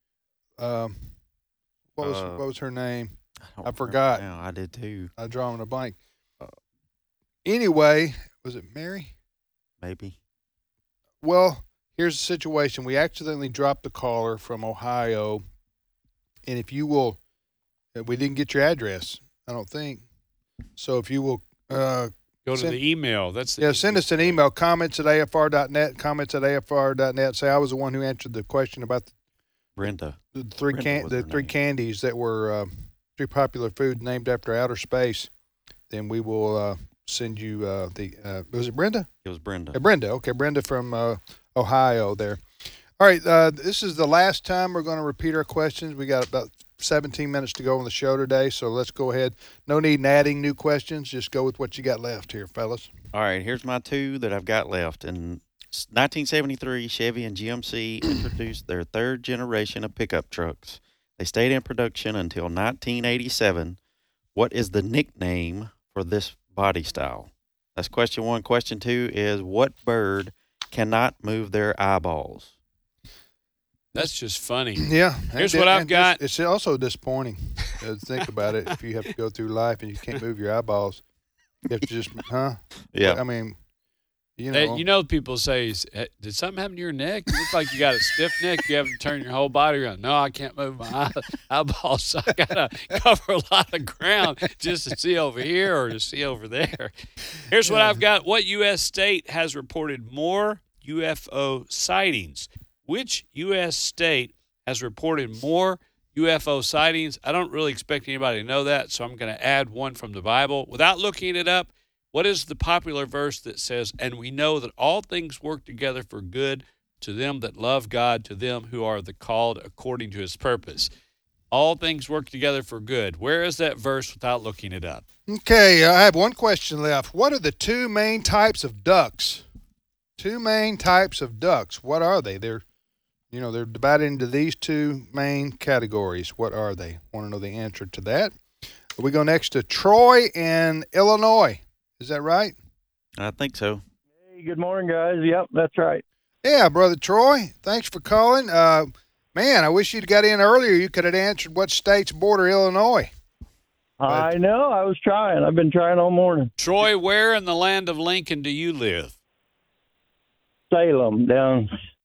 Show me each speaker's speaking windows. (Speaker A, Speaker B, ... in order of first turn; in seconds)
Speaker A: 0.6-1.0, 1.9-4.2, 5.2-6.0, 7.4-9.1, 11.2-15.4, 16.4-17.2, 17.9-20.0, 20.8-22.8, 23.6-29.1, 30.3-35.3, 35.9-39.1, 39.7-42.4, 43.0-52.9, 74.8-81.0, 81.7-83.6, 84.4-84.8, 125.3-129.4, 130.2-132.6, 133.3-138.3, 139.0-142.5, 146.4-153.1
Speaker B: 2.0-2.4, 3.5-5.1, 9.8-10.1, 29.8-30.2, 30.7-31.5, 39.2-39.8, 53.1-63.8, 64.3-72.5, 82.9-83.2, 143.2-143.8
Speaker C: 22.4-24.4, 73.9-76.2, 84.5-96.9, 97.5-120.9, 121.5-125.0, 156.6-159.1
Speaker D: 144.2-146.0, 154.0-156.5, 160.7-161.7